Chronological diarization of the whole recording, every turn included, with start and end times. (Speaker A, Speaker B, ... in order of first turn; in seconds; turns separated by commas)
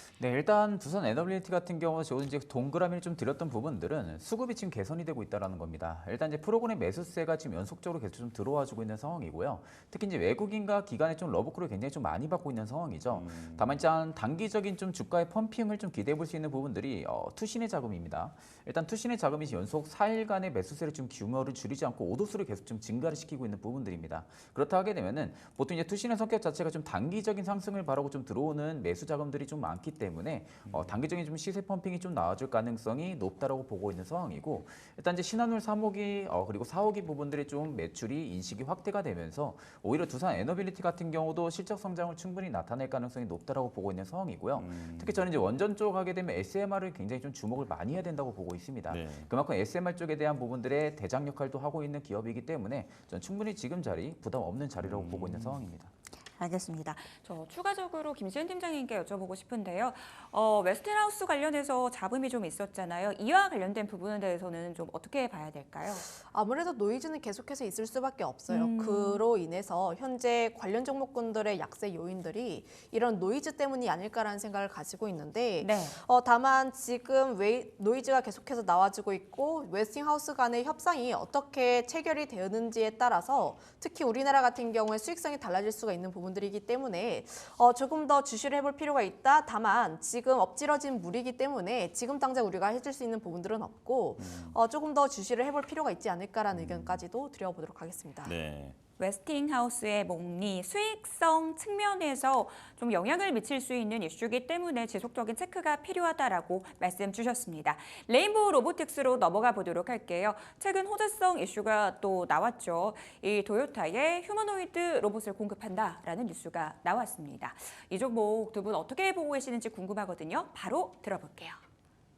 Speaker A: 0.2-55.9, Speaker B: 13.1-13.8, Speaker B: 30.6-31.0, Speaker B: 44.5-45.3, Speaker B: 48.9-49.3, Speaker B: 54.8-55.7, Speaker C: 56.4-66.1, Speaker D: 66.2-98.3, Speaker C: 68.5-69.2, Speaker C: 75.6-76.0, Speaker B: 94.2-94.6, Speaker B: 96.5-97.0, Speaker B: 98.2-98.8, Speaker C: 99.0-121.6